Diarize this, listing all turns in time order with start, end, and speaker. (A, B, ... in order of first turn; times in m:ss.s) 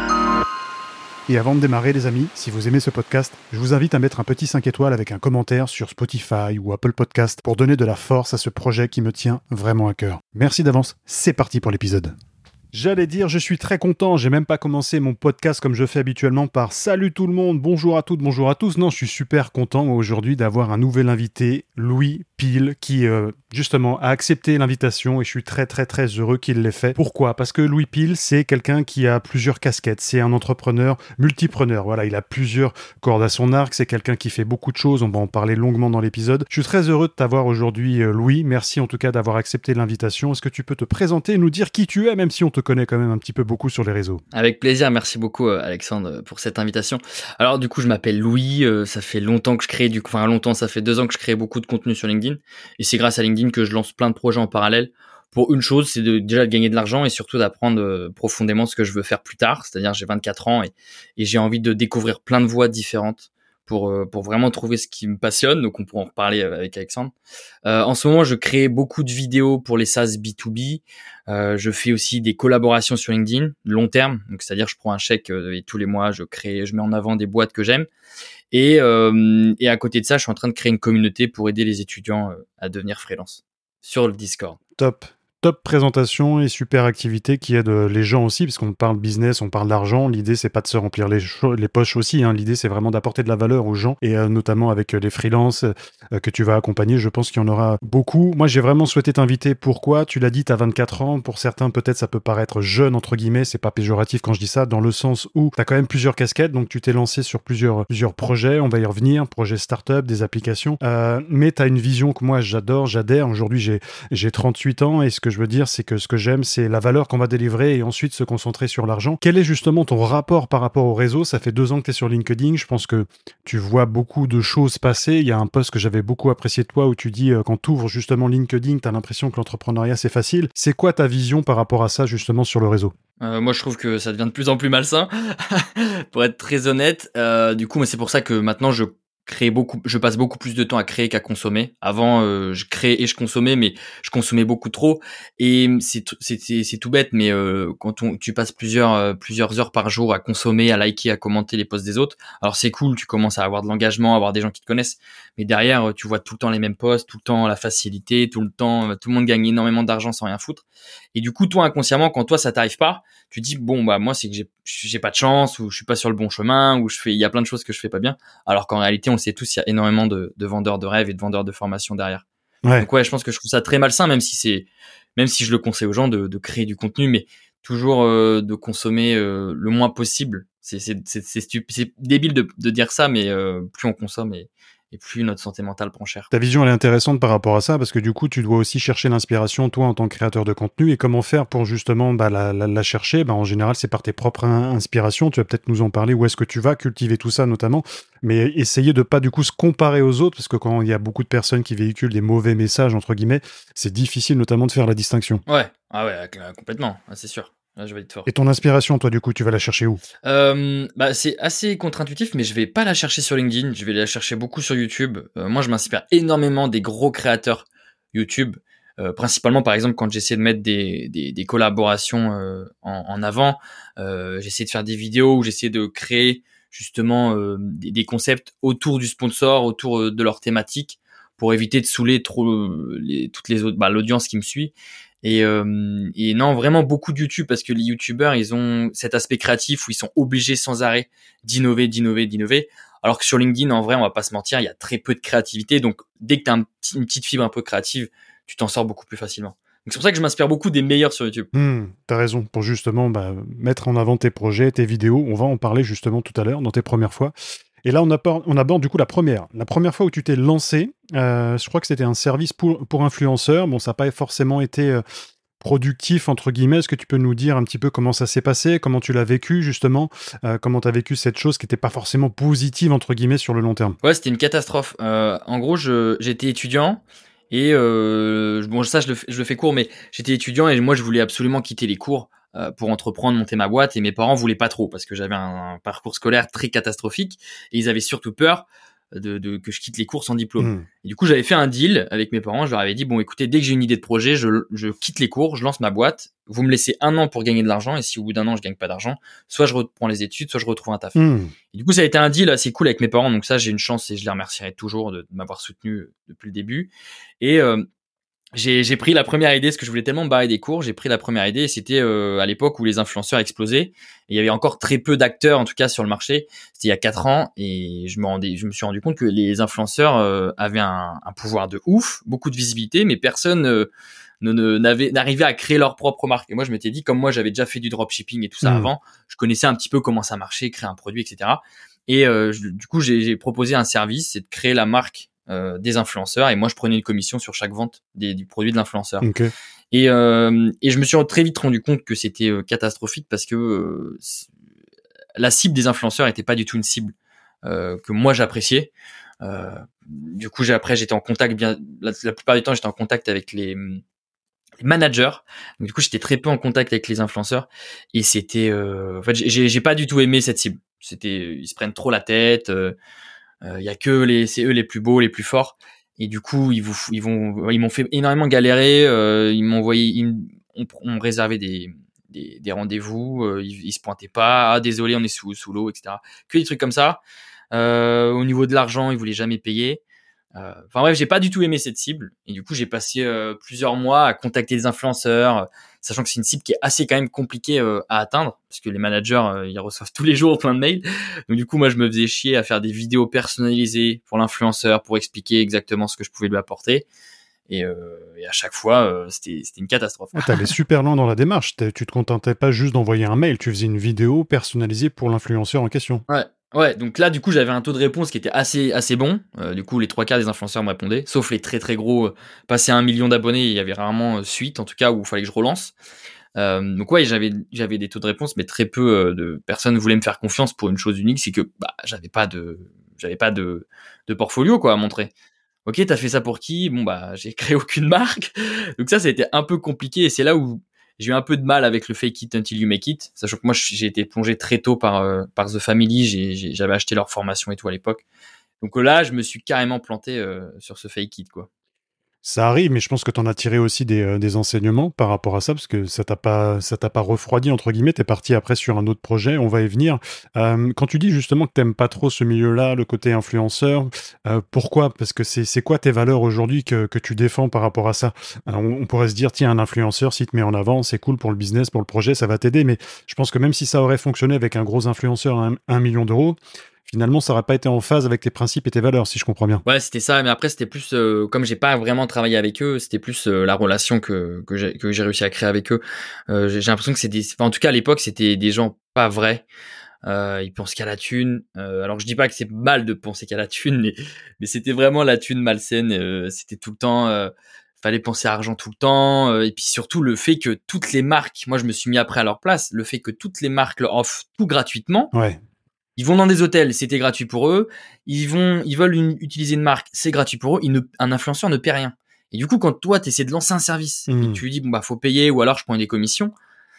0:01.3-0:12.1 A
0:12.7-0:44.2 A
0:44.3-1:07.1 B
1:07.6-1:17.9 B
1:18.5-1:24.6 B
1:24.8-2:12.9 A
2:13.2-2:52.2 B
2:52.8-3:06.3 B
3:06.3-3:25.4 A
3:25.5-3:28.3 B
3:28.2-3:30.0 A
3:30.2-4:11.5 B
4:11.5-4:17.3 A
4:17.8-4:25.0 A
4:25.6-4:34.0 A
4:34.0-5:01.2 B
4:50.6-4:50.8 A
5:01.2-5:01.5 A
5:01.7-5:07.8 B
5:08.5-5:39.3 B
5:28.6-5:28.9 A
5:39.2-5:39.5 A
5:39.9-5:44.5 B
5:45.4-5:47.1 B
5:47.6-5:48.9 B
5:49.4-5:54.0 B
5:54.8-6:03.0 B
6:03.6-6:17.2 B
6:17.7-6:20.0 B
6:20.5-6:37.0 B
6:37.7-6:40.7 B
6:40.3-6:46.2 A
6:46.3-6:55.9 B
6:56.6-7:05.3 B
7:05.8-7:18.2 B
7:18.8-7:21.7 B
7:22.4-7:49.8 A
7:49.8-7:59.6 B
8:00.2-8:15.3 B
8:15.3-8:15.6 A
8:16.2-8:26.5 B
8:24.3-8:24.6 A